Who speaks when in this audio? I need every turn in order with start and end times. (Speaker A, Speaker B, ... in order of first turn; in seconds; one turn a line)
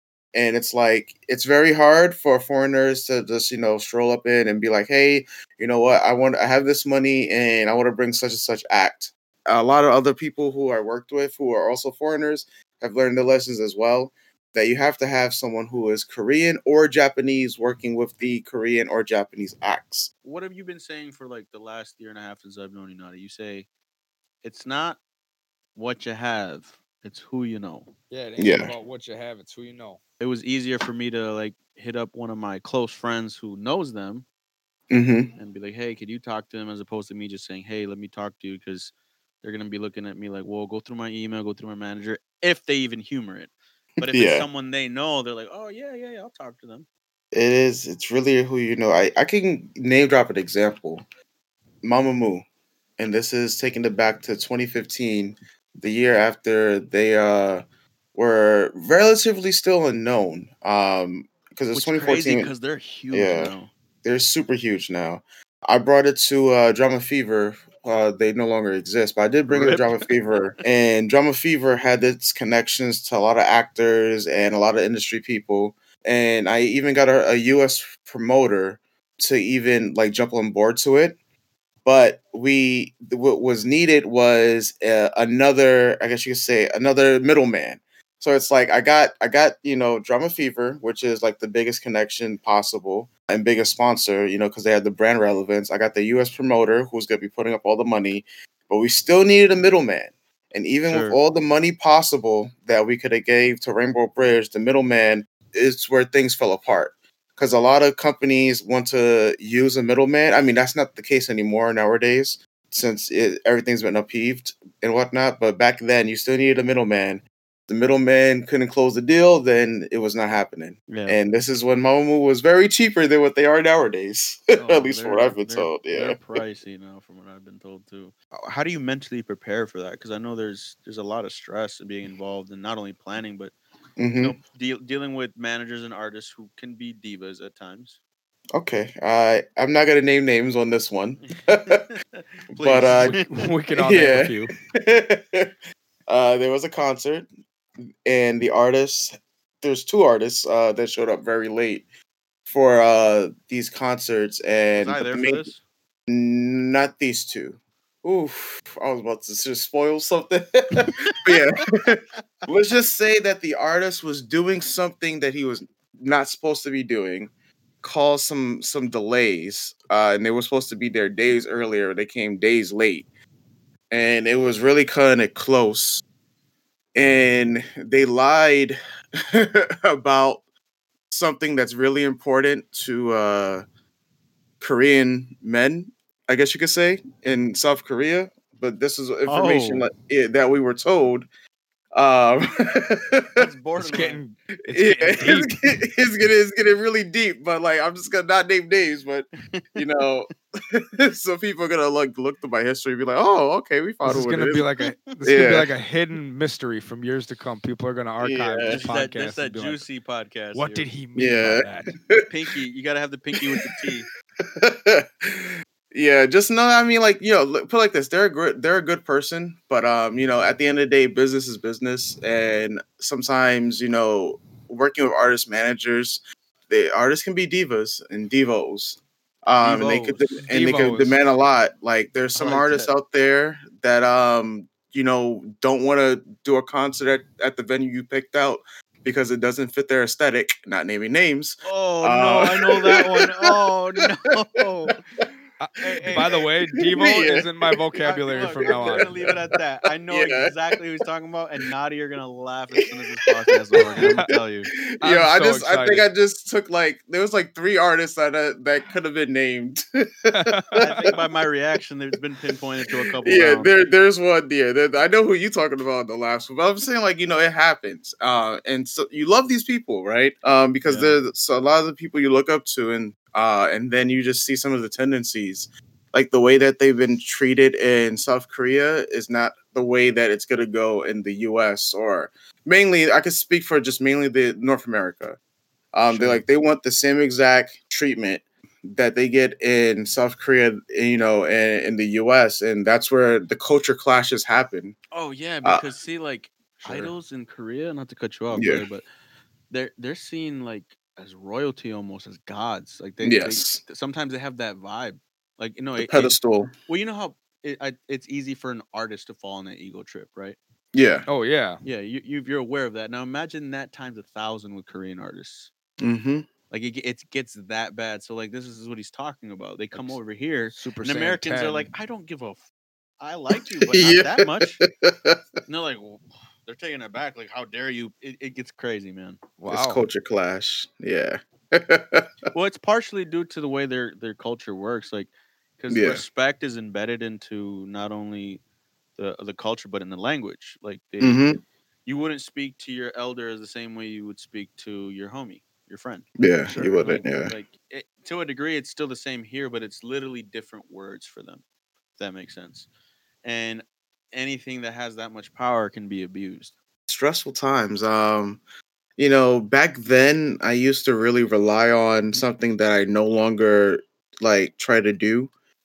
Speaker A: 0.3-20.1
Speaker B: 20.2-23.7
Speaker B: 24.4-25.0
Speaker B: 25.8-27.9
Speaker C: 28.1-30.0
Speaker A: 28.4-28.7
Speaker B: 30.2-34.3
Speaker A: 34.9-35.3
Speaker B: 35.4-46.9
Speaker A: 44.0-44.5
Speaker A: 47.3-51.0
Speaker A: 51.8-52.5
Speaker A: 53.0-57.6
Speaker A: 58.1-62.5
Speaker B: 61.7-63.7
Speaker A: 63.1-81.2
Speaker B: 69.5-70.1
Speaker A: 81.8-126.2
Speaker B: 100.9-101.2
Speaker B: 120.9-121.2
Speaker B: 124.5-133.5
Speaker A: 134.0-134.4
Speaker B: 134.2-138.0
Speaker A: 138.6-141.8
Speaker B: 141.3-143.5
Speaker A: 142.6-143.2
Speaker C: 142.9-144.6
Speaker A: 143.8-145.5
Speaker A: 146.1-147.3
Speaker A: 148.1-151.9
Speaker A: 152.5-155.5
Speaker B: 154.7-155.6
Speaker A: 156.1-167.3
Speaker B: 160.8-161.6
Speaker A: 167.8-173.1
Speaker A: 173.9-176.0
Speaker A: 176.9-180.4
Speaker A: 181.1-183.6
Speaker A: 184.6-191.3
Speaker B: 189.3-189.9
Speaker A: 191.9-193.5
Speaker B: 193.3-194.2
Speaker C: 193.8-195.7
Speaker A: 194.7-204.7
Speaker B: 199.5-199.8
Speaker C: 204.0-209.8
Speaker B: 204.5-205.2
Speaker A: 205.2-205.7
Speaker A: 208.2-208.8
Speaker B: 208.7-210.9
Speaker C: 210.5-211.9
Speaker A: 211.2-212.2
Speaker B: 212.2-214.1
Speaker A: 214.4-243.5
Speaker B: 229.6-230.4
Speaker C: 230.5-231.2
Speaker B: 232.3-232.9
Speaker B: 241.6-245.0
Speaker C: 245.6-249.1
Speaker A: 246.1-247.8
Speaker B: 248.0-254.7
Speaker A: 248.7-249.3
Speaker A: 250.1-250.8
Speaker A: 253.8-261.2
Speaker C: 253.8-254.3
Speaker C: 255.0-256.1
Speaker C: 260.3-260.8
Speaker B: 260.8-263.8
Speaker A: 263.2-285.4
Speaker B: 270.9-271.2
Speaker A: 285.9-295.0
Speaker B: 286.1-286.4
Speaker B: 295.1-299.1
Speaker A: 296.8-297.1
Speaker A: 298.5-298.8
Speaker B: 299.7-306.4
Speaker A: 303.2-303.8
Speaker A: 306.0-306.7
Speaker B: 306.9-310.6
Speaker A: 310.9-311.3
Speaker C: 311.3-311.8
Speaker B: 311.8-315.7
Speaker A: 316.0-316.5
Speaker B: 316.7-322.6
Speaker C: 320.7-321.9
Speaker B: 323.2-324.8
Speaker A: 323.8-325.4
Speaker B: 325.7-329.4
Speaker C: 329.6-330.0
Speaker A: 329.7-332.3
Speaker B: 332.5-338.6
Speaker A: 335.9-336.2
Speaker B: 339.2-341.5
Speaker A: 341.2-341.6
Speaker B: 342.1-351.6
Speaker A: 346.4-347.5
Speaker B: 352.2-352.9
Speaker B: 353.4-356.7
Speaker A: 357.1-358.6
Speaker A: 359.2-365.5